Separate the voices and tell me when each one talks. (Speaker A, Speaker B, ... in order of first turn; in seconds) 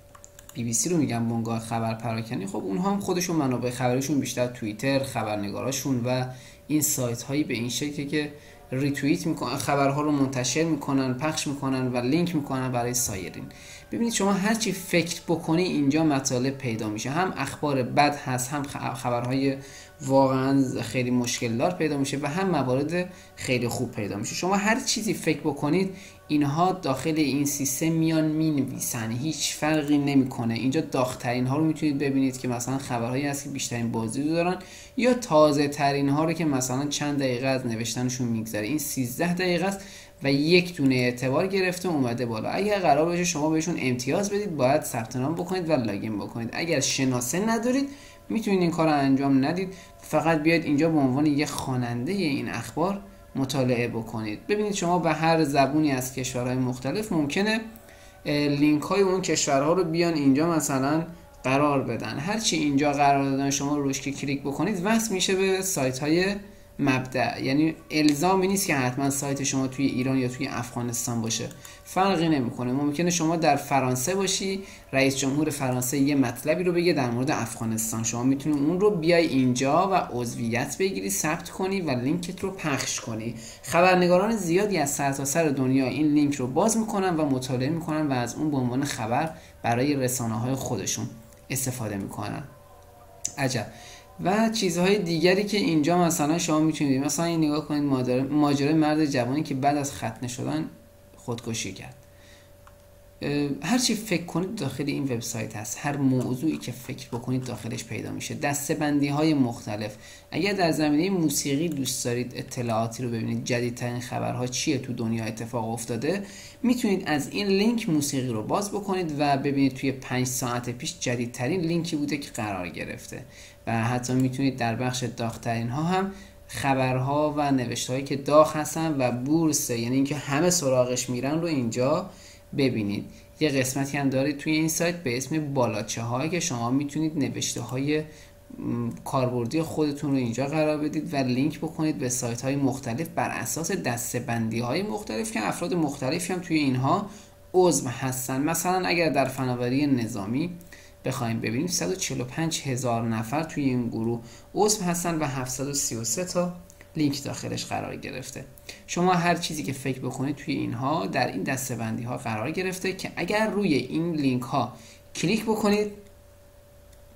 Speaker A: 0.5-57.6, 58.2-92.5, 93.4-102.0, 103.2-166.0